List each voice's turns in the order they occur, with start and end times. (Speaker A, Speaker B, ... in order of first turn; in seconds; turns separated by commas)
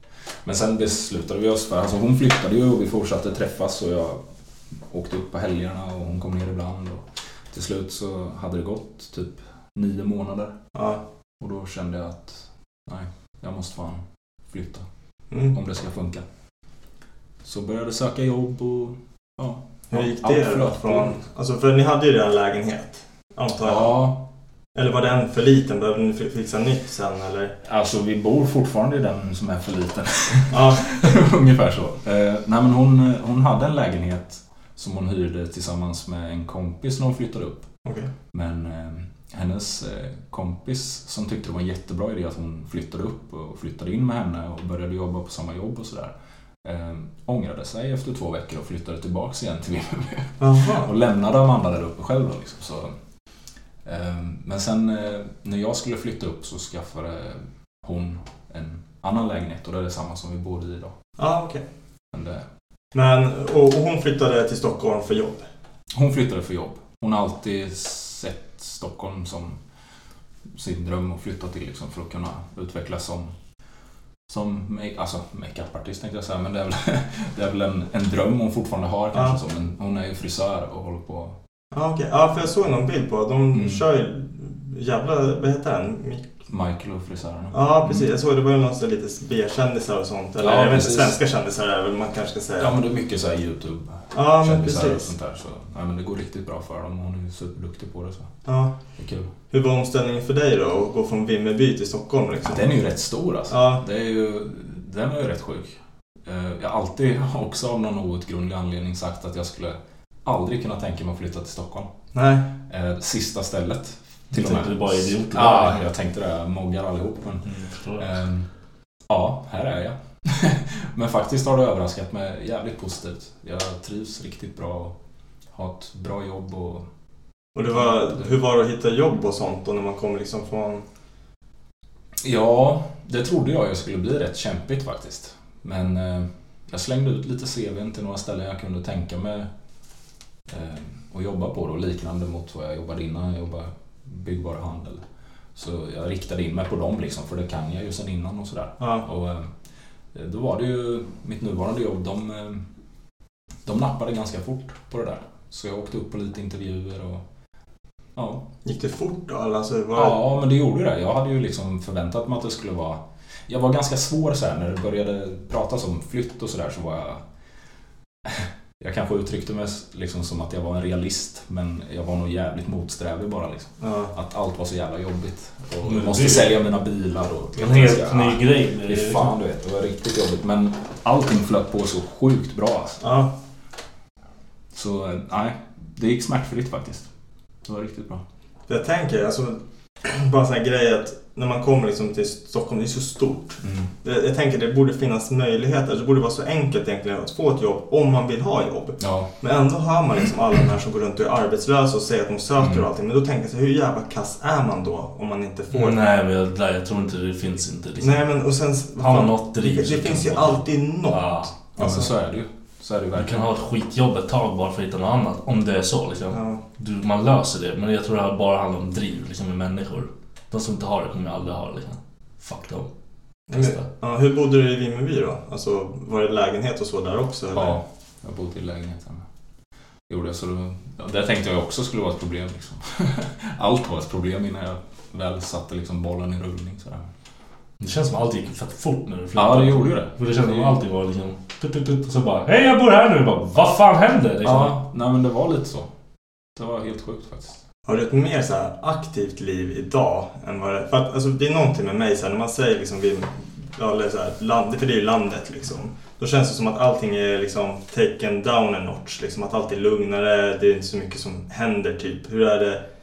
Speaker A: 0.4-4.2, Speaker A: 4.9-10.6, Speaker B: 10.7-11.0, Speaker A: 11.4-14.9, Speaker A: 15.5-16.2, Speaker A: 17.4-21.2, Speaker B: 19.9-24.0, Speaker A: 23.6-24.2, Speaker B: 24.7-27.6, Speaker A: 27.6-37.7, Speaker B: 30.5-31.0, Speaker B: 37.9-38.1, Speaker A: 38.3-53.0, Speaker B: 50.4-50.9, Speaker A: 53.9-61.0, Speaker B: 61.2-61.6, Speaker A: 62.1-62.4, Speaker B: 62.9-65.5, Speaker A: 65.9-69.6, Speaker A: 70.5-73.3, Speaker A: 74.3-81.4, Speaker B: 81.7-86.2, Speaker A: 83.5-83.8, Speaker A: 86.5-88.1, Speaker B: 87.5-92.7, Speaker A: 90.4-91.2, Speaker A: 92.6-98.3, Speaker B: 94.1-95.1, Speaker B: 98.5-98.7, Speaker A: 99.0-99.3, Speaker B: 99.5-102.7, Speaker A: 102.5-111.9, Speaker B: 103.5-103.8, Speaker B: 112.1-112.5, Speaker A: 112.7-117.5, Speaker C: 114.3-115.9, Speaker C: 117.5-118.1, Speaker A: 118.0-118.5, Speaker A: 119.1-125.0, Speaker A: 125.5-126.9, Speaker B: 127.5-130.8, Speaker A: 127.8-128.3, Speaker A: 132.2-139.5, Speaker A: 140.5-145.0, Speaker A: 145.6-149.5, Speaker B: 148.8-149.1, Speaker A: 150.1-152.6, Speaker A: 153.6-157.2, Speaker A: 158.2-158.4, Speaker B: 158.6-160.2, Speaker A: 159.9-167.2, Speaker A: 168.2-183.0, Speaker B: 173.8-174.1, Speaker C: 175.8-176.6, Speaker C: 177.6-179.3, Speaker B: 183.0-183.3, Speaker A: 184.7-187.1, Speaker A: 187.6-188.2, Speaker B: 188.7-206.0, Speaker A: 193.6-193.9, Speaker A: 199.0-199.3, Speaker A: 202.6-202.8, Speaker C: 205.7-208.3, Speaker B: 208.0-212.1, Speaker C: 209.0-211.5, Speaker A: 211.8-213.4, Speaker C: 213.1-222.9, Speaker B: 216.3-216.6, Speaker B: 223.5-227.8, Speaker C: 223.5-223.8, Speaker A: 227.5-229.2, Speaker A: 230.1-237.1, Speaker C: 237.8-244.8, Speaker A: 239.3-240.7, Speaker A: 244.4-245.9, Speaker A: 246.6-247.6, Speaker B: 247.9-262.8